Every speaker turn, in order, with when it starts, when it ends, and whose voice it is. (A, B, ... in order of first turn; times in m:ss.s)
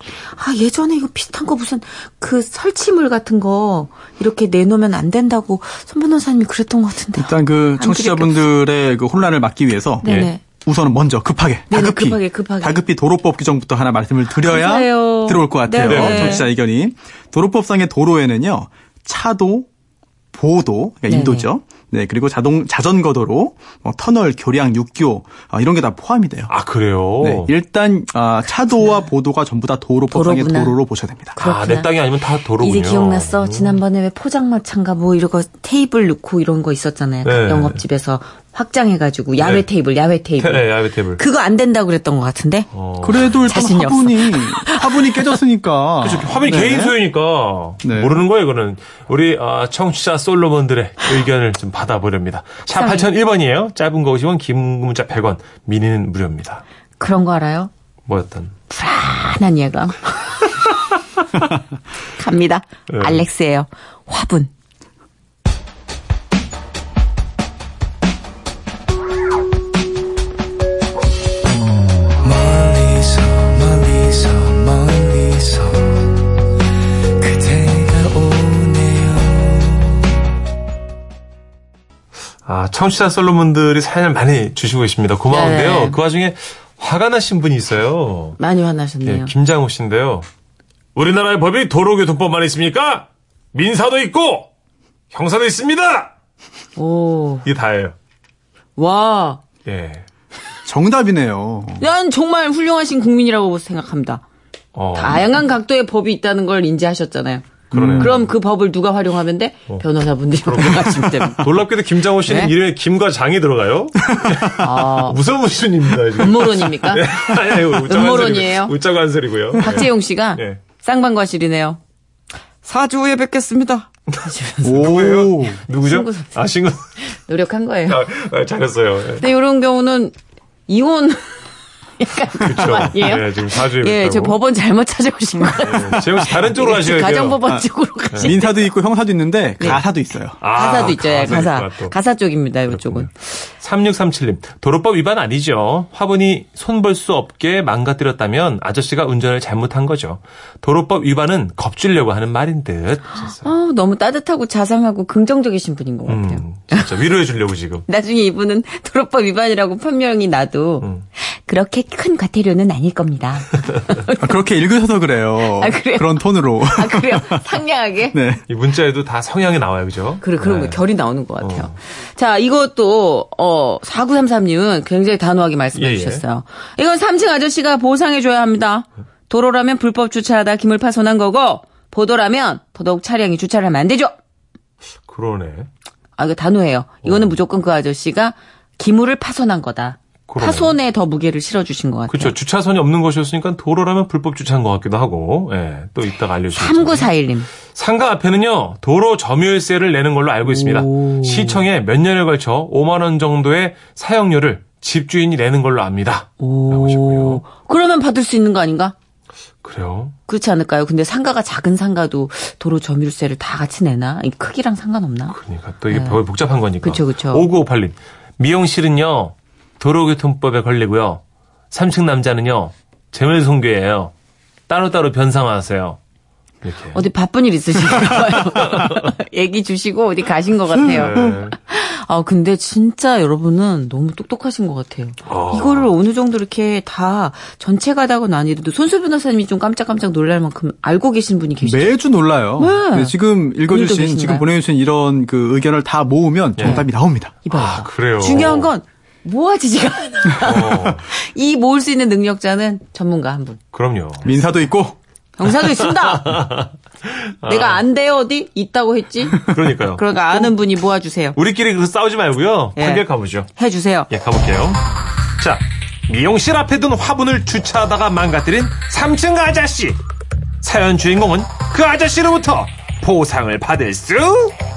0:00.2-0:08.4 A
0:07.2-0:10.1 B
0:10.0-0:10.4 A
0:10.0-0:10.3 C
0:10.6-0:19.7 B
0:11.7-0:12.8 A
0:14.4-0:16.5 A
0:15.8-0:16.5 C
0:20.3-0:26.5 B
0:21.1-0:21.5 A
0:26.5-0:27.5 C
0:27.2-0:31.4 B
0:28.7-0:29.1 A
0:30.1-0:30.8 A
0:31.4-0:31.9 A
0:31.4-0:33.8 C
0:32.5-0:42.7 A
0:37.2-0:37.8 C
0:39.4-0:39.7 C
0:40.4-0:41.2 C
0:42.7-0:43.4 C
0:43.0-0:47.0 B
0:43.4-0:45.4 A
0:46.0-0:56.6 C
0:47.8-0:48.2 B
0:52.7-0:53.1 A
0:57.0-0:57.7 A
0:58.1-0:58.5 C
0:58.7-1:00.7 A
1:02.1-1:04.5 A
1:02.9-1:03.2 C
1:12.2-1:16.0 D
1:17.2-1:19.8 D
1:22.5-1:28.4 C
1:25.3-1:26.0 A
1:28.4-1:29.3 A
1:29.0-1:30.2 C
1:31.0-1:34.5 C
1:35.1-1:36.1 C
1:36.8-1:37.4 A
1:37.4-1:37.9 C
1:38.8-1:39.4 A
1:39.6-1:40.0 C
1:40.7-1:41.9 B
1:41.8-1:44.2 A
1:44.8-1:45.3 C
1:45.0-1:47.5 A
1:47.7-1:48.3 C
1:47.7-1:48.2 B
1:48.0-1:51.6 A
1:50.4-2:00.6 C
1:52.2-1:52.5 A
1:54.6-1:55.2 A
1:56.1-1:57.1 A
1:57.7-1:58.8 A
1:59.6-2:01.8 A
2:02.6-2:05.0 A
2:04.6-2:05.6 B
2:04.6-2:06.9 C
2:05.7-2:06.3 A
2:07.1-2:08.0 A
2:07.9-2:09.2 C
2:09.2-2:10.1 A
2:10.7-2:11.5 A
2:12.0-2:18.7 A
2:12.4-2:14.4 C
2:15.4-2:16.1 B
2:15.6-2:17.4 C
2:17.4-2:20.4 B
2:18.1-2:18.5 C
2:20.4-2:21.9 C
2:20.5-2:23.1 A
2:22.7-2:33.5 C
2:33.4-2:36.9 A
2:36.1-2:37.8 C
2:37.9-2:44.4 A
2:44.2-2:47.5 B
2:45.4-2:48.2 A
2:48.1-2:48.4 B
2:48.5-2:50.8 C
2:50.2-3:04.1 A
2:51.4-2:51.7 C
2:55.8-2:56.2 C
3:05.1-3:05.7 C
3:06.2-3:12.3 A
3:07.0-3:07.4 C
3:10.3-3:10.8 C
3:12.1-3:17.1 C
3:16.5-3:17.5 A
3:17.8-3:27.4 C
3:20.5-3:21.6 A
3:26.4-3:29.0 A
3:29.6-3:30.1 C
3:30.3-3:35.4 A
3:35.3-3:44.1 C
3:35.9-3:36.2 A
3:36.8-3:37.5 A
3:44.7-3:46.0 C
3:46.6-3:47.1 C
3:46.9-4:02.0 A
3:48.1-3:49.1 C
3:50.8-3:51.6 C
3:55.2-3:55.9 C
4:01.6-4:07.4 B
4:02.6-4:04.5 A
4:06.6-4:06.8 C
4:06.6-4:06.9 A
4:07.4-4:13.6 A
4:07.5-4:08.7 C
4:10.4-4:11.0 C
4:13.7-4:14.3 C
4:14.2-4:15.0 B
4:15.4-4:16.4 A
4:15.6-4:17.8 C
4:17.4-4:21.4 A
4:19.5-4:20.5 C
4:21.4-4:23.5 C
4:22.8-4:23.0 A
4:23.6-4:24.1 A
4:24.1-4:24.8 C
4:25.4-4:30.0 C
4:30.6-4:34.5 C